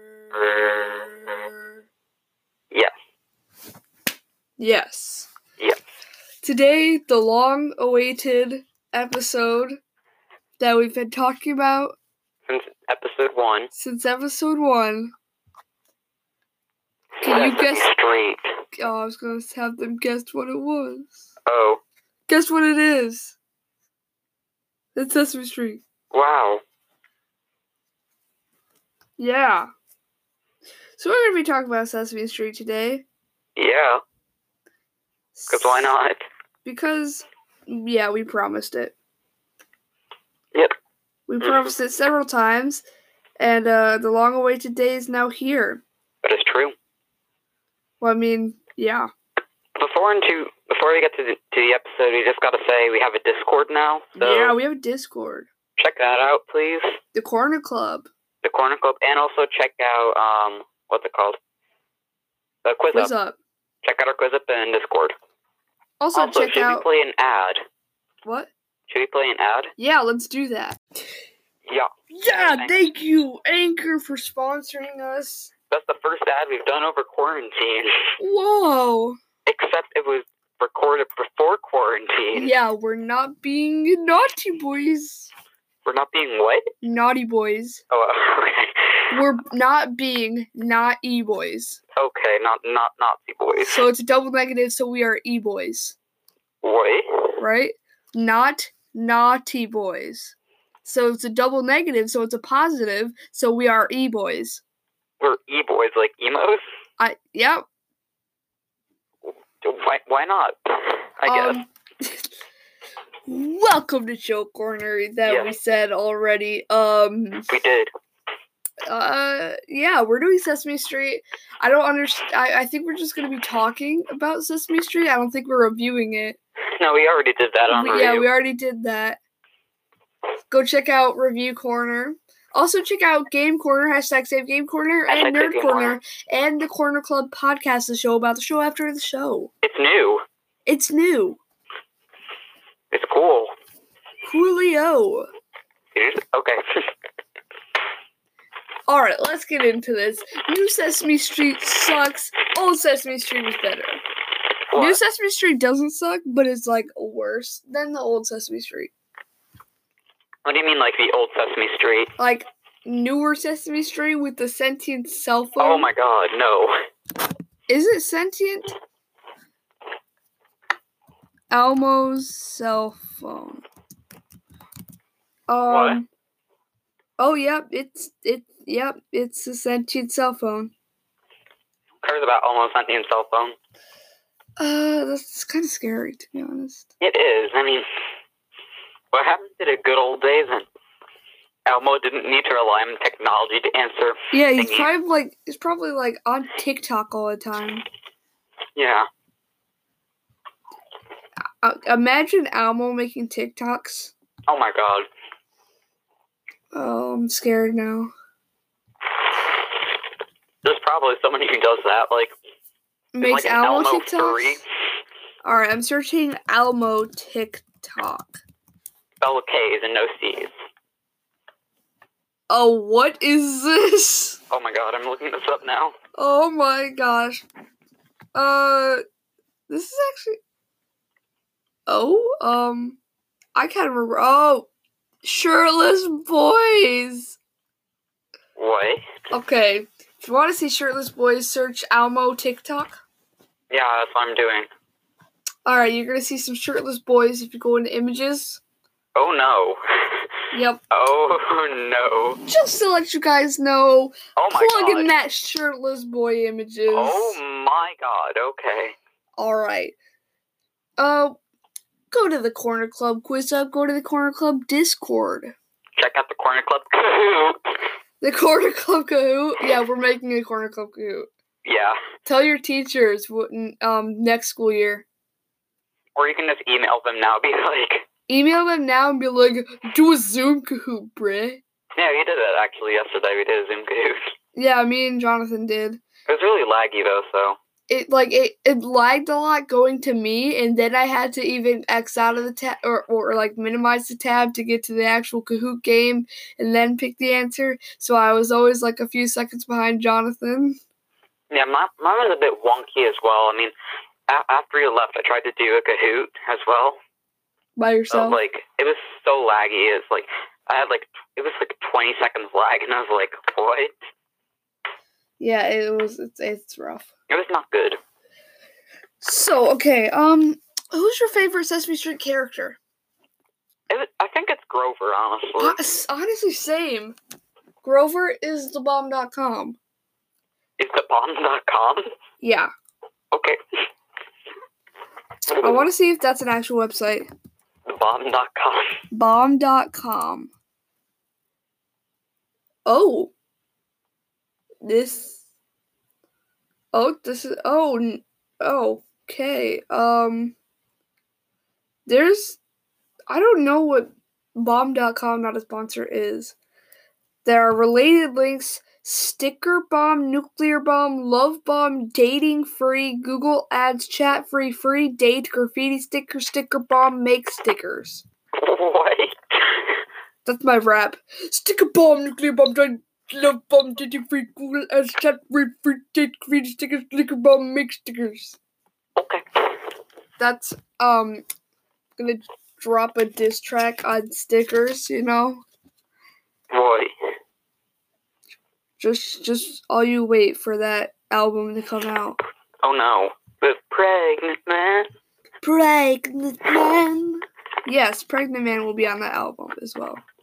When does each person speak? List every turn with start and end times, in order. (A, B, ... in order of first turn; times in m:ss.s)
0:00.3-0:01.5 A
0:00.4-0:01.7 B
0:04.6-0:05.3 B
0:06.4-0:09.8 B
0:10.6-0:12.0 B
0:12.5-0:13.7 A
0:13.7-0:15.1 B
0:17.2-0:17.9 B
0:17.2-0:18.4 A
0:18.8-0:21.2 B
0:21.4-0:21.8 A
0:22.3-0:23.4 B
0:25.0-0:25.8 B
0:26.1-0:26.6 A
0:29.2-0:29.7 B
0:31.0-0:33.0 B
0:33.6-0:34.0 A
0:35.3-0:35.9 B
0:35.5-0:36.2 A
0:36.6-0:38.9 B
0:41.3-0:42.8 B
0:41.4-0:41.7 A
0:43.4-0:45.8 B
0:46.2-0:46.7 A
0:48.0-0:49.1 B
0:49.8-0:54.6 A
0:54.2-0:55.5 B
0:55.8-0:57.0 A
0:57.1-0:58.1 B
0:58.4-1:01.4 A
1:02.6-1:03.1 A
1:02.9-1:03.4 B
1:03.8-1:05.1 A
1:06.0-1:06.8 B
1:06.1-1:07.6 A
1:08.2-1:08.5 B
1:08.9-1:09.7 A
1:09.8-1:10.8 B
1:11.7-1:12.9 A
1:12.1-1:15.5 B
1:15.7-1:18.0 A
1:18.2-1:19.2 B
1:19.4-1:22.5 A
1:22.3-1:25.3 B
1:25.8-1:26.6 A
1:26.8-1:27.8 B
1:27.9-1:29.1 A
1:29.1-1:31.8 B
1:31.9-1:33.8 A
1:33.5-1:36.0 B
1:36.6-1:37.4 A
1:37.4-1:44.6 B
1:45.2-1:46.6 A
1:47.0-1:47.6 B
1:49.6-1:51.6 A
1:51.2-1:52.2 B
1:53.3-1:57.5 B
1:55.2-1:55.5 A
1:57.5-1:57.9 A
1:58.9-2:06.4 B
2:06.8-2:08.3 A
2:07.7-2:09.2 B
2:10.5-2:19.5 B
2:15.1-2:16.0 A
2:19.6-2:20.2 A
2:20.6-2:21.4 B
2:22.9-2:23.5 A
2:24.2-2:25.3 B
2:25.9-2:26.6 A
2:28.9-2:34.0 B
2:34.7-2:35.0 A
2:34.7-2:38.9 B
2:40.4-2:42.1 A
2:42.2-2:45.9 B
2:45.6-2:46.7 A
2:47.7-2:48.7 B
2:51.5-2:53.6 B
2:55.5-2:56.1 B
2:55.7-2:56.0 A
2:57.2-3:00.7 B
3:02.0-3:03.6 A
3:04.6-3:06.9 B
3:07.0-3:07.8 A
3:09.1-3:10.6 A
3:11.6-3:14.9 A
3:14.3-3:17.8 B
3:18.8-3:19.1 A
3:21.6-3:24.1 B
3:24.5-3:25.0 A
3:26.7-3:28.1 B
3:30.6-3:32.3 A
3:33.1-3:34.6 B
3:33.2-3:34.6 A
3:35.4-3:38.4 B
3:39.2-3:40.5 A
3:42.5-3:44.4 B
3:44.5-3:45.9 A
3:46.2-3:47.4 B
3:48.3-3:49.0 B
3:49.7-3:50.4 B
3:51.9-3:53.0 B
3:53.5-3:54.7 B
3:55.2-3:57.4 B
3:58.6-3:59.0 A
3:59.3-4:03.0 B
4:03.7-4:04.7 A
4:05.6-4:08.6 B
4:09.1-4:10.3 A
4:10.5-4:10.8 B
4:10.9-4:12.4 A
4:12.4-4:17.4 B
4:14.4-4:15.1 A
4:16.9-4:19.0 A
4:19.4-4:19.9 B
4:21.0-4:21.4 B
4:22.1-4:25.5 B
4:26.0-4:27.6 A
4:28.2-4:31.3 B
4:31.6-4:32.0 A
4:32.2-4:35.0 B
4:36.2-4:38.1 A
4:38.3-4:41.6 B
4:41.9-4:44.2 A
4:44.5-4:46.0 B
4:46.2-4:47.6 A
4:47.9-5:00.8 B
5:01.5-5:03.7 A
5:04.3-5:07.0 A
5:07.8-5:08.4 B
5:08.1-5:13.9 A
5:15.4-5:17.1 B
5:17.3-5:18.0 A
5:19.2-5:22.8 B
5:23.9-5:25.8 A
5:25.6-5:27.2 B
5:27.8-5:29.8 B
5:30.8-5:32.1 A
5:32.4-5:32.7 B
5:33.3-5:33.6 A
5:35.5-5:35.9 A
5:35.6-5:37.3 B
5:37.9-5:39.0 A
5:39.1-5:40.5 B
5:42.8-5:43.3 B
5:44.8-5:45.4 B
5:46.9-5:50.6 B
5:52.0-5:52.6 B
5:53.3-5:56.5 B
5:57.4-6:08.2 B
6:08.6-6:10.0 A
6:10.4-6:18.6 B
6:19.2-6:19.8 A
6:20.4-6:21.4 B
6:22.2-6:25.6 B
6:26.7-6:27.1 A
6:29.0-6:32.4 B
6:32.8-6:35.1 A
6:35.6-6:40.2 B